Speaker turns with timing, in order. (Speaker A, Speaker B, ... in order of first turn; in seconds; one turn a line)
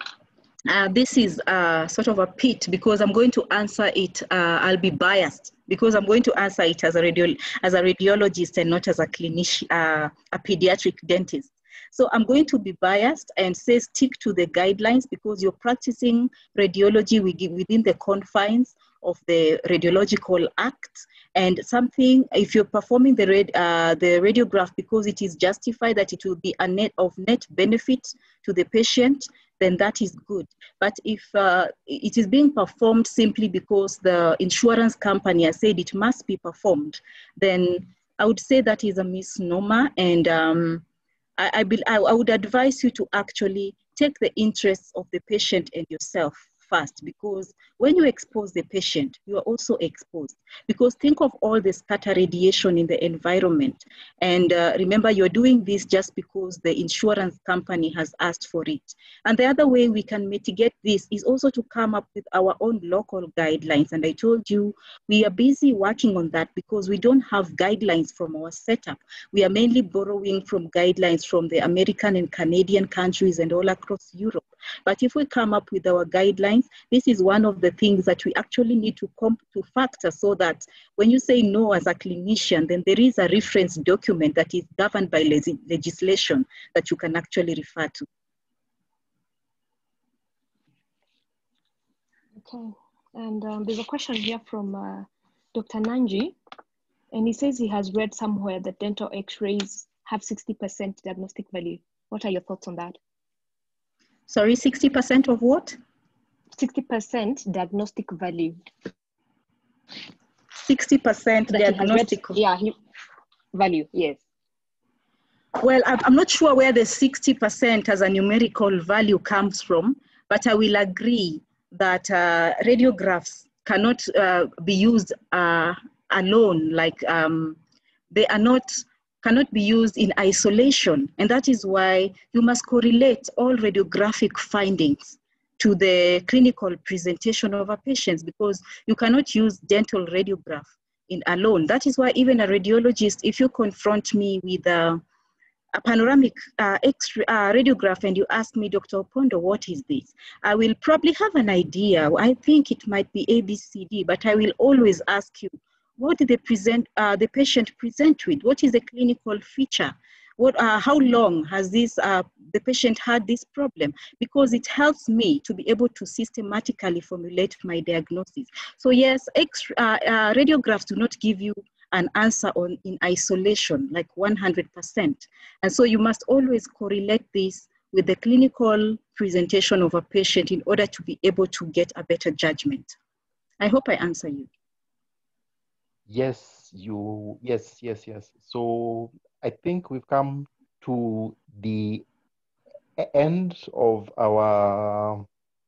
Speaker A: 0.7-40.8
Speaker A: 41.4-88.0
Speaker B: 92.3-96.3
Speaker B: 97.1-103.0
Speaker A: 104.3-105.8
Speaker B: 106.5-108.6
Speaker A: 110.6-112.4
Speaker B: 111.5-112.8
Speaker B: 113.5-114.2
Speaker A: 115.6-127.6
Speaker A: 128.1-145.0
Speaker A: 145.7-182.9
Speaker A: 183.6-184.5
Speaker C: 186.1-192.0
Speaker C: 193.0-195.2